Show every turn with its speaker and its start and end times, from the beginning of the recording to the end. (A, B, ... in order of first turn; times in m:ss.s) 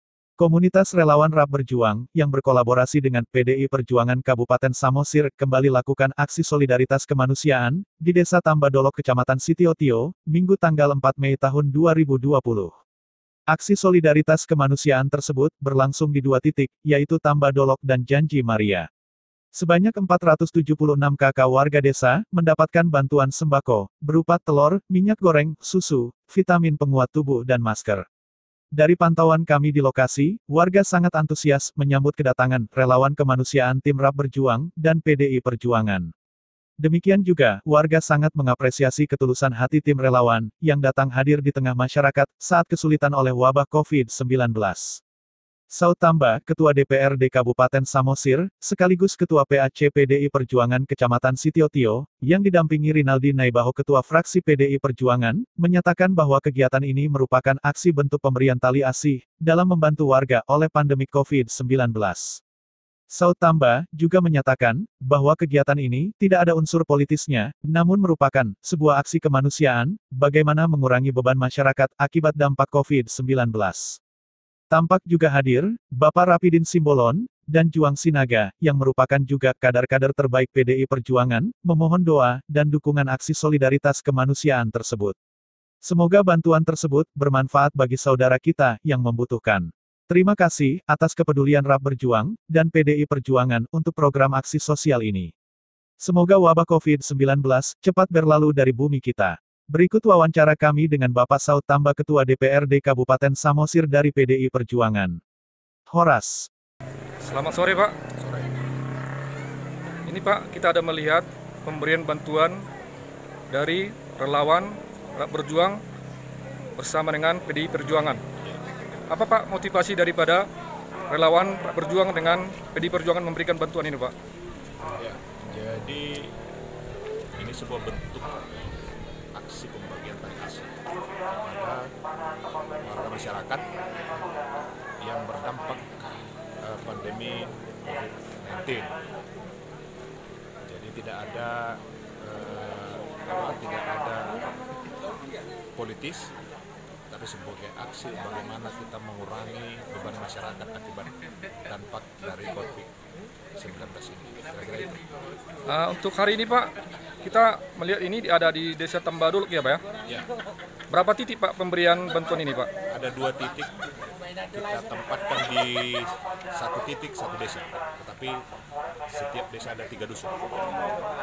0:00.4-0:12.7 A
0:13.5-0:18.9 A
0:19.5-0:28.0 A
0:28.7-0:36.1 A
0:36.8-0:45.0 A
0:45.7-1:02.4 A
1:03.1-1:14.0 A
1:14.7-1:25.2 A
1:25.8-1:35.3 A
1:36.0-1:45.2 A
1:45.9-1:46.5 A
1:47.2-1:48.0 B
1:48.2-1:48.5 C
1:50.0-1:52.6 B
1:53.5-1:55.8 B
1:56.8-1:58.2 B
1:59.1-2:00.5 B
2:01.1-2:04.1 B
2:05.0-2:06.3 C
2:07.3-2:08.4 C
2:09.3-2:10.7 C
2:11.4-2:11.9 C
2:12.8-2:13.7 C
2:15.0-2:18.9 C
2:20.7-2:24.5 C
2:25.8-2:26.3 C
2:27.1-2:31.1 C
2:31.7-2:32.9 C
2:33.6-2:35.0 C
2:35.7-2:36.7 B
2:37.2-2:39.8 B
2:40.9-2:42.7 B
2:42.9-2:43.7 C
2:44.5-2:48.4 C
2:49.1-2:50.4 C